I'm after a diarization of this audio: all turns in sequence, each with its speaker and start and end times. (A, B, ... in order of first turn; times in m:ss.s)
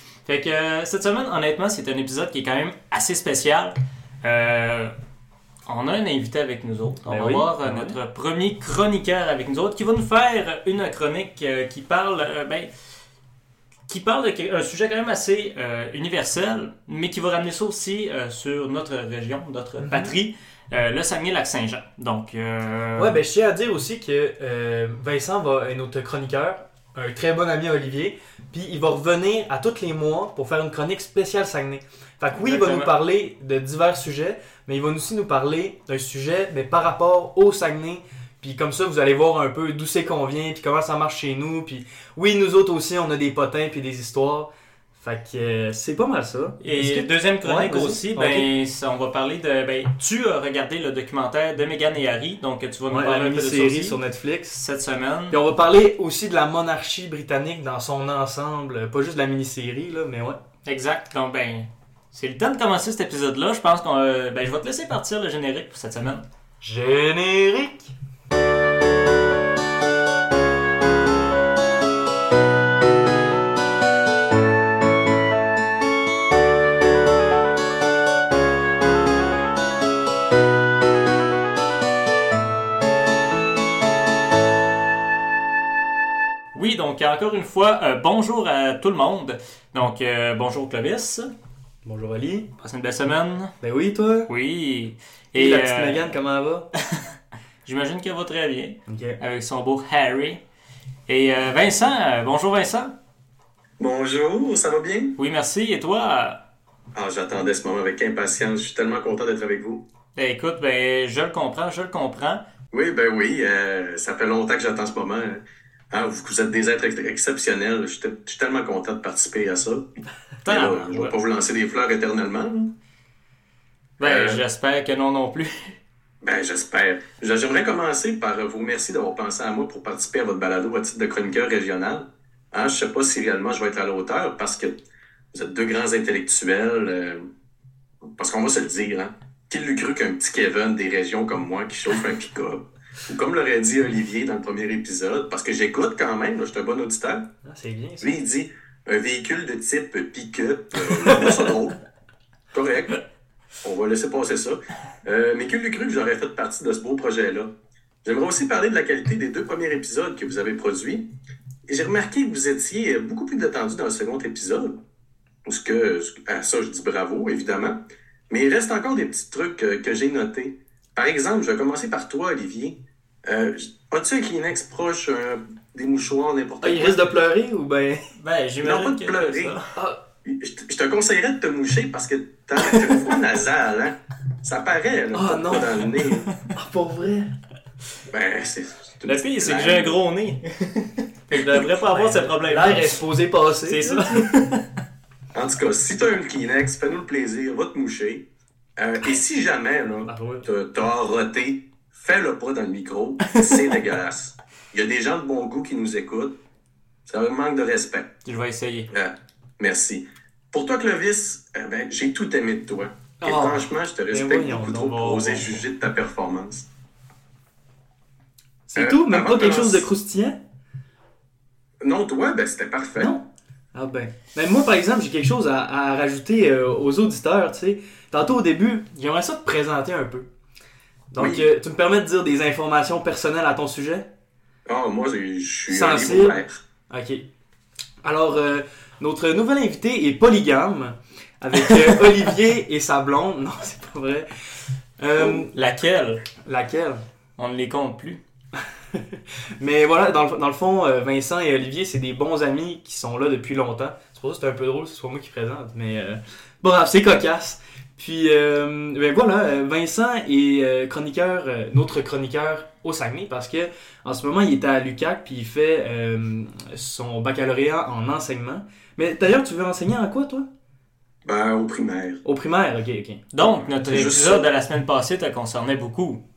0:00.2-0:04.9 A
0:05.7-0:12.7 A
0:07.0-0:08.0 B
0:13.9-0:23.2 A
0:19.8-0:20.1 B
0:23.0-0:48.5 B
0:32.3-0:32.9 A
0:46.6-0:54.0 A
0:52.9-0:54.6 B
0:54.5-0:55.4 A
0:55.3-1:00.4 B
1:00.6-1:06.2 A
1:06.6-1:07.9 B
1:26.5-1:31.3 A
1:31.8-1:32.5 B
1:32.6-1:33.5 A
1:33.6-1:34.3 B
1:34.3-1:36.1 A
1:35.3-1:36.7 B
1:37.6-1:40.4 A
1:38.9-1:39.2 B
1:41.1-1:42.9 A
1:43.8-1:45.2 C
1:45.2-1:46.4 A
1:46.9-1:49.8 C
1:50.1-1:52.4 A
1:52.7-1:59.9 C
2:00.4-2:01.1 A
2:00.4-2:02.7 C
2:04.0-2:05.7 A
2:04.0-2:04.4 C
2:06.2-2:14.7 C
2:15.3-2:17.3 C
2:18.2-2:27.3 C
2:27.4-2:28.1 B
2:28.0-2:31.8 C
2:32.5-2:33.0 C
2:33.6-2:37.5 C
2:38.0-2:41.1 C
2:41.7-2:44.8 C
2:45.4-2:47.8 C
2:48.3-2:57.0 C
2:56.6-2:58.1 B
2:58.2-2:59.7 A
2:58.6-2:59.6 C
3:00.2-3:06.3 C
3:05.1-3:07.3 B
3:08.1-3:10.0 C
3:09.0-3:13.0 A
3:11.9-3:14.3 B
3:13.6-3:14.6 A
3:15.3-3:26.4 C
3:20.0-3:20.4 B
3:27.1-3:28.1 C
3:28.2-3:28.9 A
3:28.9-3:36.7 C
3:33.2-3:35.5 B
3:38.7-3:40.4 B
3:38.8-3:39.9 C
3:41.8-3:43.1 C
3:43.0-3:50.3 B
3:51.1-3:54.1 B
3:51.2-3:51.5 C
3:54.6-3:56.6 C
3:55.7-3:57.2 B
3:58.0-4:04.3 B
4:05.0-4:05.5 B
4:05.5-4:06.2 A
4:06.4-4:07.0 B
4:07.4-4:08.2 A
4:08.9-4:30.4 B
4:31.2-4:32.2 C
4:32.2-4:33.2 B
4:33.3-4:36.2 A
4:33.8-4:34.5 C